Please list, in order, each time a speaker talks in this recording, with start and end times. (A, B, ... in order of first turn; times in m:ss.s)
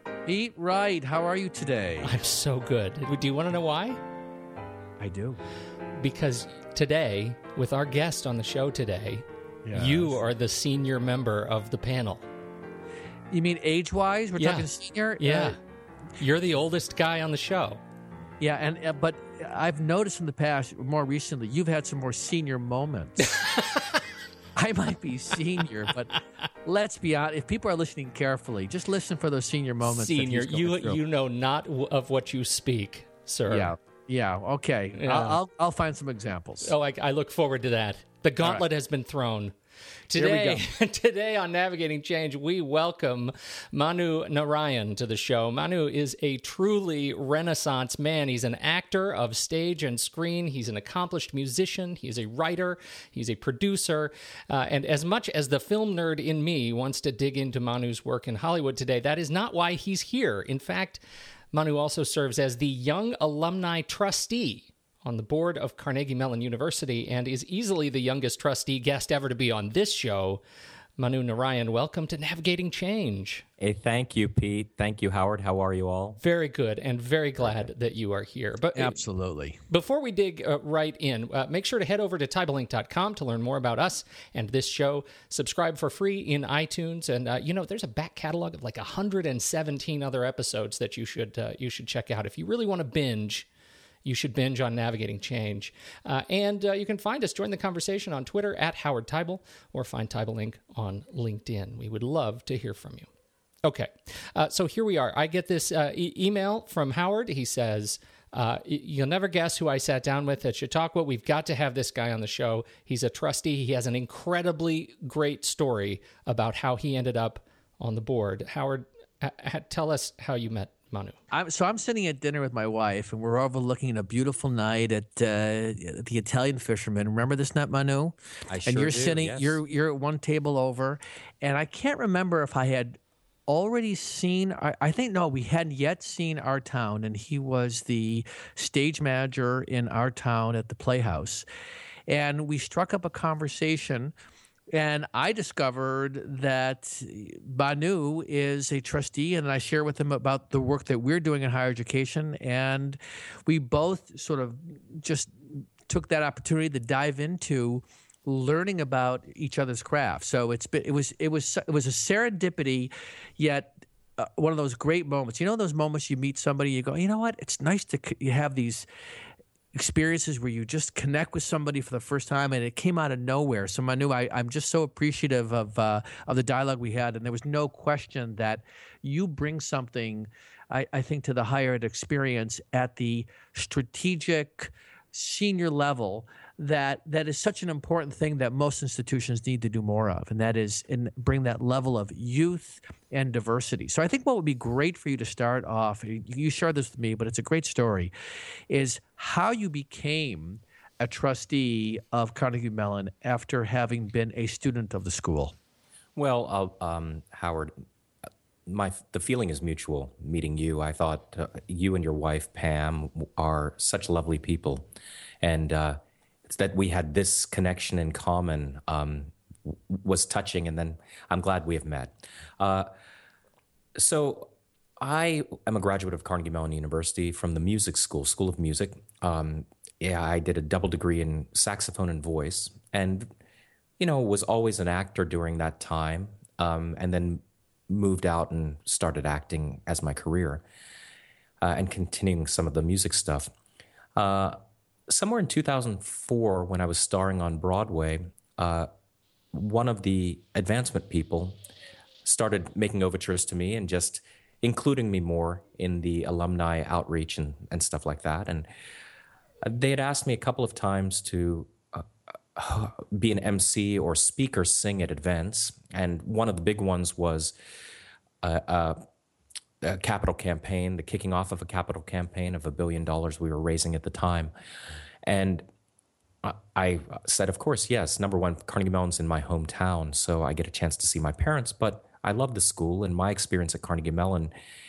0:00.3-0:02.2 A
0:02.0-0:04.0 B
0:05.0-0:05.4 A
0:06.0-0:12.2 B
0:09.6-0:10.1 A
0:13.3-0:15.6 A
0:14.4-0:14.7 B
0:15.2-0:15.6 B
0:16.2-0:17.8 B
0:18.4-0:23.3 A
0:23.2-0:24.0 B
0:24.6-0:31.0 A
0:29.8-0:33.7 B
0:33.5-0:36.7 A
0:35.0-0:35.4 B
0:36.6-0:39.5 B
0:40.1-1:01.0 B
0:40.2-0:40.6 A
1:01.5-1:10.4 B
1:11.0-1:13.4 B
1:13.6-1:16.2 C
1:16.2-1:19.0 B
1:18.8-1:19.6 A
1:19.7-1:33.5 B
1:34.0-1:43.1 B
1:43.6-2:01.2 B
2:01.3-2:13.0 A
2:08.5-2:09.6 C
2:13.5-2:21.4 A
2:22.1-2:24.1 A
2:24.7-2:48.9 A
2:49.7-3:18.1 A
3:18.7-3:25.6 A
3:26.2-3:27.7 C
3:28.7-3:34.9 C
3:35.4-3:42.9 C
3:44.0-3:53.3 C
3:54.0-4:00.6 C
4:01.6-4:03.5 C
4:04.2-4:04.6 C
4:05.1-4:08.9 C
4:09.5-4:11.6 C
4:12.2-4:18.7 C
4:19.6-4:27.5 C
4:28.4-4:29.0 C
4:29.8-4:34.5 C
4:35.2-4:35.6 C
4:36.4-4:44.5 C